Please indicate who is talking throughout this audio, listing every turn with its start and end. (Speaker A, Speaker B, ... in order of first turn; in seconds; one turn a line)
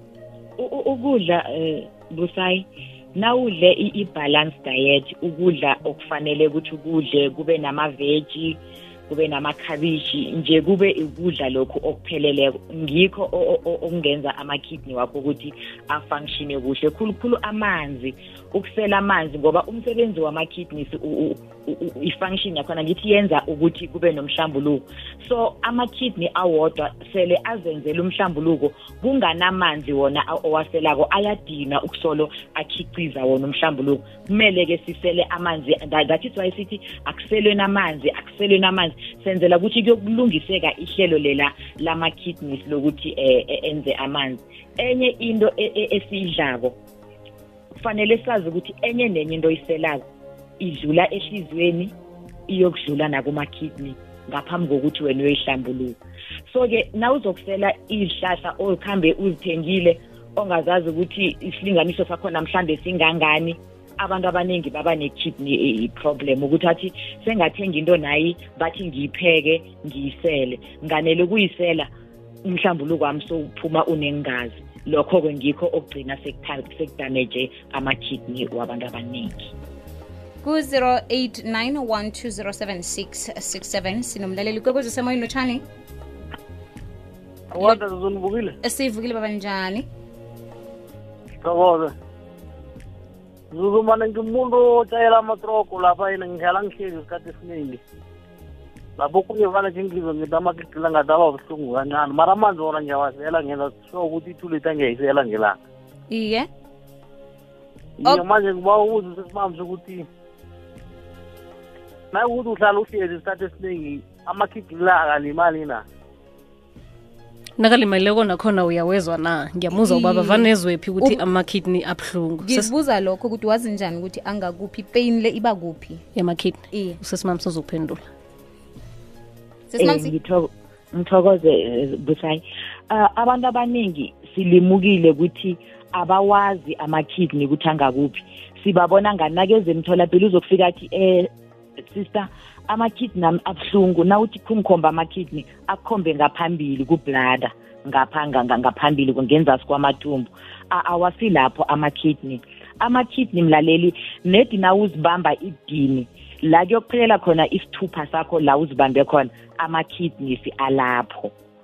Speaker A: 0.6-46.8
Speaker A: 47.7-50.0
Speaker A: 50.6-51.9
Speaker A: 52.5-71.9
Speaker A: 72.5-79.5
Speaker B: 80.4-85.6
Speaker C: 87.5-88.5
Speaker B: 88.6-89.9
Speaker C: 91.4-91.9
Speaker C: 93.5-97.8
Speaker C: 99.0-105.6
Speaker B: 106.1-106.5
Speaker C: 108.0-110.1
Speaker C: 112.1-115.8
Speaker D: 117.6-122.7
Speaker B: 119.7-120.5
Speaker B: 122.4-126.0
Speaker D: 126.2-128.1
Speaker B: 126.7-127.0
Speaker B: 129.7-130.1
Speaker A: 129.8-161.3